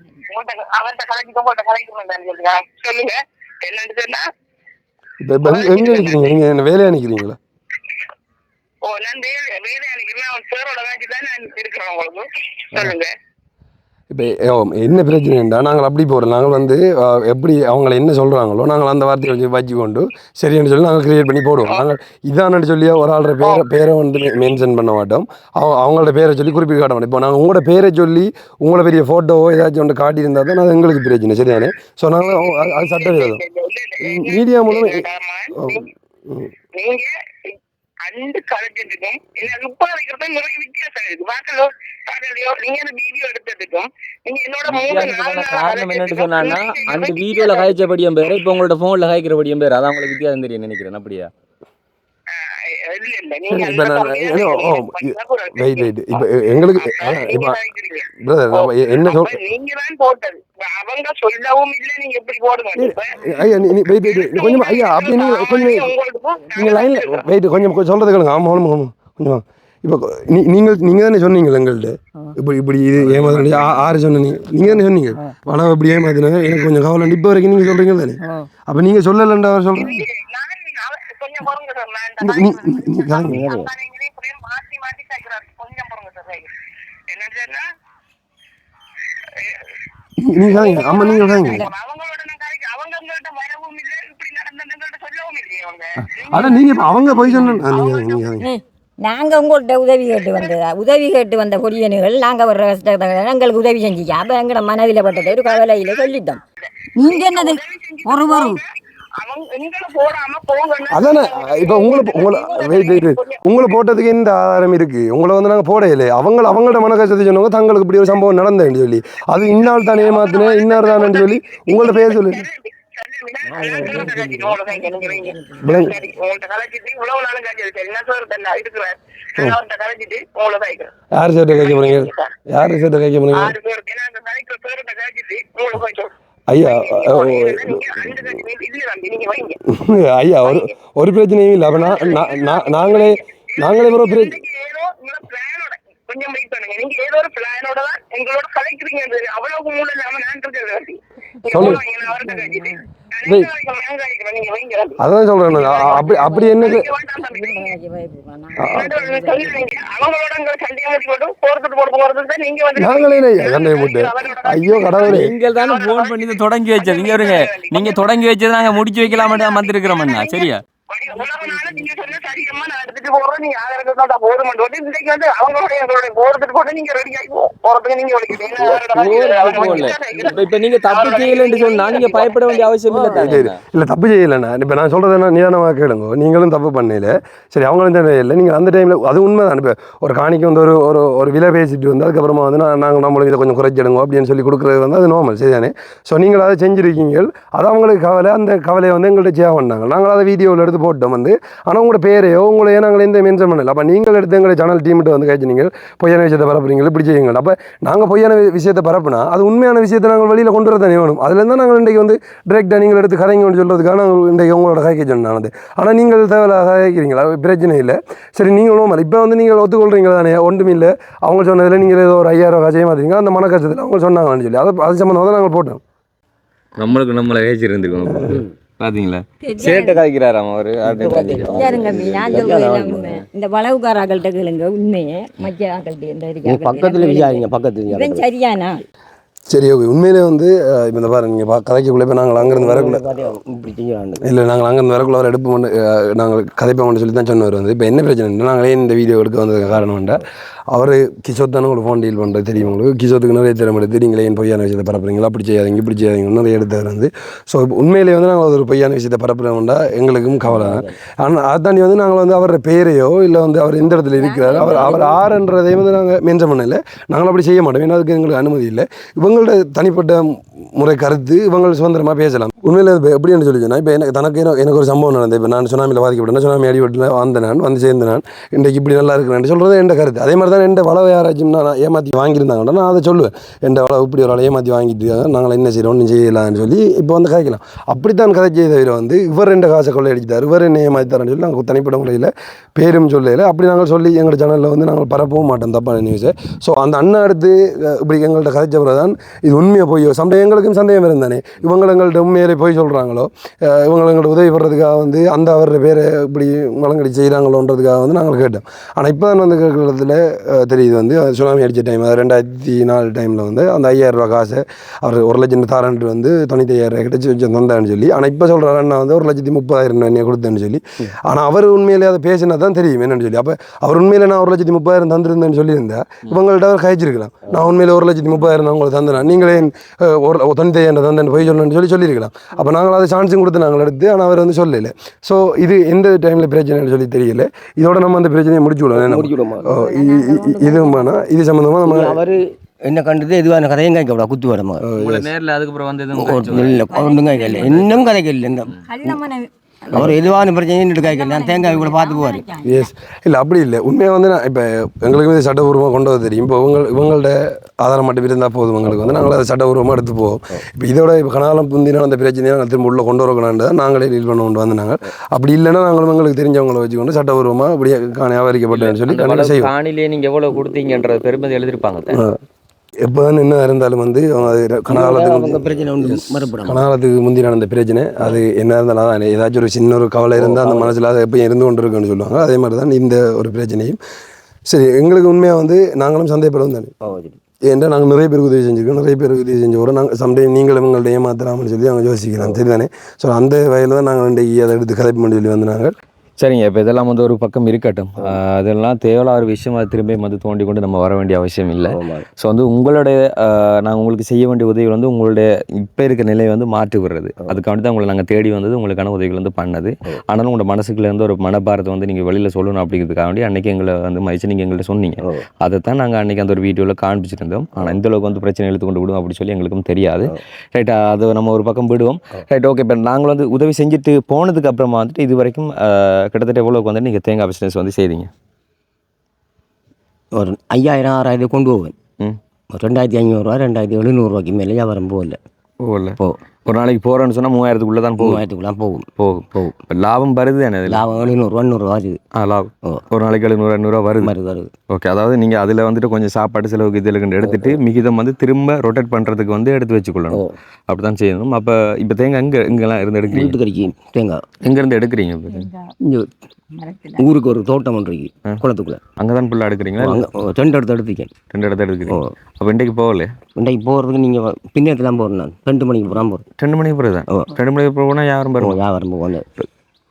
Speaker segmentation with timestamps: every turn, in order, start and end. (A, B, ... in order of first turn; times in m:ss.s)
0:00.3-0:04.3 A
0:05.2-0:07.4 B
0:05.5-0:06.4 A
0:08.8-0:13.1 A
0:14.1-0:33.4 B
0:32.3-0:35.8 A
0:34.0-0:36.5 B
0:36.8-0:47.8 A
0:44.7-0:51.3 C
0:52.3-0:56.2 A
0:53.5-0:57.6 B
0:56.8-1:03.2 A
0:58.2-0:59.4 B
1:02.8-1:05.9 B
1:04.1-1:07.2 A
1:06.6-1:20.0 B
1:13.0-1:13.8 C
1:18.2-1:18.5 D
1:19.8-1:26.5 A
1:22.2-1:23.4 B
1:23.3-1:23.7 E
1:27.1-1:27.7 A
1:29.2-1:29.7 A
1:30.2-1:31.7 B
1:30.4-1:38.4 A
1:36.0-1:38.5 B
1:38.4-1:46.4 D
1:40.2-1:40.5 A
1:45.1-1:48.7 A
1:47.0-1:48.6 D
1:49.2-1:53.4 A
1:50.9-2:02.4 B
1:59.5-2:10.9 A
2:03.5-2:04.6 E
2:03.8-2:05.7 D
2:05.6-2:06.0 B
2:11.1-2:13.6 B
2:11.5-2:12.3 A
2:13.3-2:19.6 A
2:16.5-2:18.2 B
2:19.7-2:24.4 B
2:20.4-2:20.7 A
2:21.7-2:35.0 A
2:31.5-2:31.8 B
2:31.6-2:32.8 D
2:33.2-2:33.5 B
2:35.0-2:36.9 B
2:35.5-2:37.8 A
2:35.7-2:39.9 D
2:38.6-2:38.9 B
2:38.7-2:48.0 A
2:42.8-2:45.3 B
2:45.0-2:50.6 C
2:49.0-3:03.3 A
2:51.3-2:51.9 D
2:58.4-3:03.6 C
3:02.9-3:45.8 B
3:46.8-3:52.5 C
3:49.4-3:50.0 D
3:50.8-3:53.3 E
3:51.4-3:58.8 D
3:56.5-3:58.2 E
3:59.5-4:03.0 B
4:02.4-4:04.2 E
4:04.2-5:42.2 B
4:20.5-4:21.0 E
4:24.1-4:25.3 D
4:24.6-4:25.0 E
5:38.9-5:39.7 E
5:39.6-5:41.1 D
5:41.8-5:44.8 E
5:44.8-5:45.3 B
5:45.0-5:46.8 C
5:46.1-5:49.2 E
5:46.9-5:47.8 D
5:47.5-5:48.1 C
5:48.9-5:52.9 D
5:49.9-5:52.4 E
5:52.6-6:09.7 B
6:08.7-6:12.2 C
6:12.1-6:12.4 B
6:13.0-6:24.0 B
6:14.9-6:16.8 E
6:20.4-6:20.9 E
6:24.7-6:26.9 B
6:27.0-6:27.4 E
6:27.7-6:36.0 B
6:36.4-7:08.3 C
6:41.9-6:42.3 E
7:10.3-7:12.0 E
7:12.7-7:15.4 E
7:15.8-7:18.4 C
7:18.2-7:19.8 E
7:19.2-7:21.1 C
7:20.9-7:22.2 E
7:22.3-7:24.3 C
7:24.2-7:24.7 E
7:24.9-7:33.6 C
7:27.4-7:27.8 E
7:30.3-7:30.6 E
7:33.3-7:34.5 E
7:34.6-7:35.7 C
7:35.5-7:35.9 D
7:36.0-7:36.3 E
7:36.8-7:37.3 D
7:37.2-7:39.0 E
7:39.2-7:40.3 C
7:40.0-7:41.4 E
7:41.5-7:43.4 C
7:42.1-7:42.3 E
7:43.6-7:46.4 E
7:46.6-7:48.8 C
7:48.6-7:49.5 E